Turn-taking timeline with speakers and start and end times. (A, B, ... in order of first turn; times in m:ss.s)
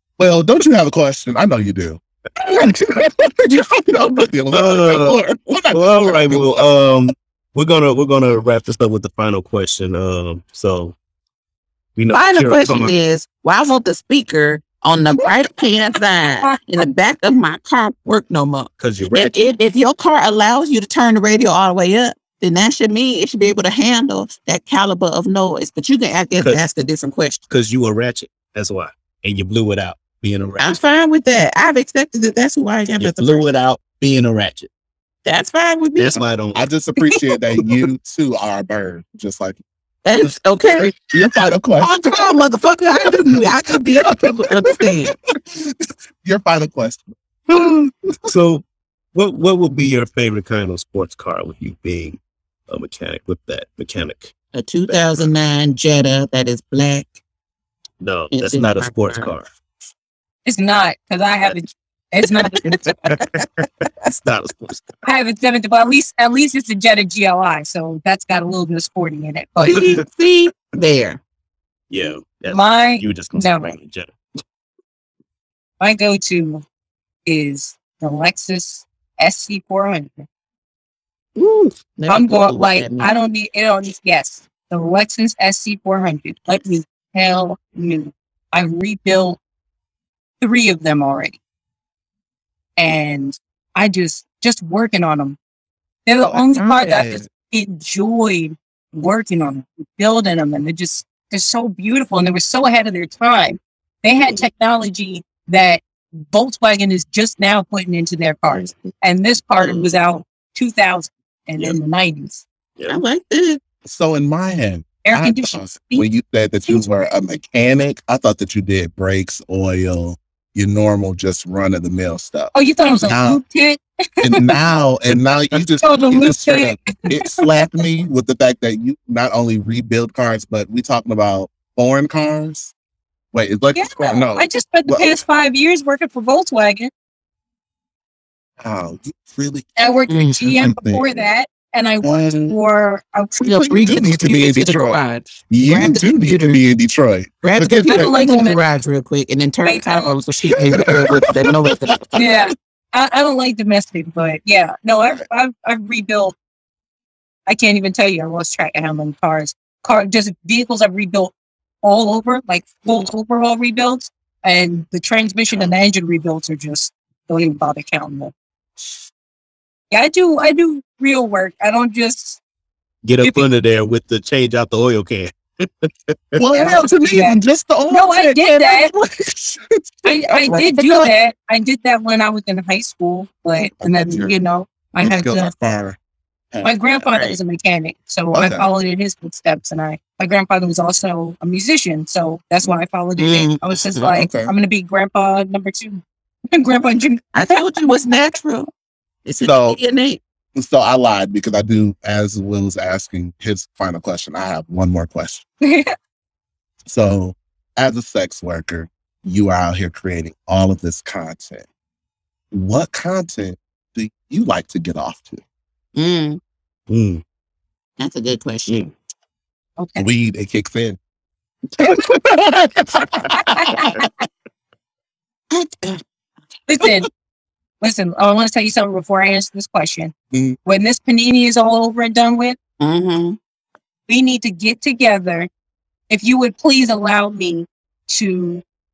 0:00.2-0:06.7 A
0:04.5-0:05.2 B
0:05.7-0:11.0 B
0:12.0-0:12.9 B
0:12.1-0:27.4 C
0:18.8-0:19.3 B
0:27.5-0:30.8 B
0:30.6-0:33.4 C
0:33.0-0:34.7 B
0:35.2-0:36.2 C
0:36.0-0:36.7 B
0:36.5-0:39.6 A
0:40.0-0:41.0 C
0:40.9-0:42.3 A
0:41.8-0:45.1 C
0:43.0-0:44.4 A
0:45.0-0:47.7 A
0:48.3-0:54.3 B
0:54.5-0:57.2 C
0:54.9-0:55.2 B
0:58.0-0:59.5 B
0:58.3-0:59.3 C
1:00.4-1:02.9 D
1:02.8-1:04.8 B
1:05.0-1:09.9 D
1:09.6-1:11.2 C
1:11.9-1:14.1 B
1:12.5-1:13.8 D
1:15.8-1:16.6 D
1:17.2-1:20.2 D
1:21.4-1:23.1 C
1:22.1-1:29.4 D
1:30.4-1:31.4 D
1:32.8-1:35.4 D
1:36.0-1:52.4 D
1:36.3-1:37.2 A
1:52.9-1:53.6 C
1:53.8-2:03.4 A
1:55.0-1:56.1 D
2:02.5-2:04.5 D
2:04.2-2:12.7 A
2:05.8-2:07.5 D
2:13.3-2:15.2 A
2:13.7-2:16.9 D
2:18.6-2:21.2 A
2:19.8-2:23.4 D
2:20.1-2:20.4 C
2:22.0-2:22.6 A
2:23.4-2:26.6 C
2:23.4-2:28.5 A
2:27.4-2:32.1 C
2:27.8-2:28.6 D
2:29.6-2:30.1 D
2:31.1-2:32.2 A
2:32.1-2:36.4 D
2:37.4-2:48.3 D
2:49.9-2:52.4 D
2:53.0-2:56.4 B
2:56.3-3:01.1 A
2:56.5-2:57.4 D
2:57.9-2:58.9 D
3:00.0-3:05.5 D
3:03.8-3:04.3 A
3:05.0-3:06.0 A
3:06.5-3:07.1 A
3:06.6-3:16.0 D
3:08.3-3:08.7 A
3:13.2-3:14.2 C
3:14.0-3:14.5 A
3:16.5-3:17.6 D
3:17.3-3:18.7 C
3:19.2-3:20.2 C
3:19.4-3:19.8 A
3:20.5-3:25.4 A
3:25.6-3:25.9 D
3:26.8-3:31.6 A
3:32.5-3:35.4 A
3:36.0-3:36.4 C
3:36.9-3:37.2 B
3:38.0-3:38.9 C
3:39.8-3:40.1 D
3:40.0-3:41.0 A
3:41.8-3:44.1 A
3:43.3-3:44.1 D
3:45.5-3:46.0 C
3:46.7-3:47.1 D
3:47.8-3:50.1 D
3:50.3-3:50.6 A
3:50.6-3:52.6 D
3:52.8-3:53.4 C
3:54.1-3:55.5 D
3:56.1-3:58.6 D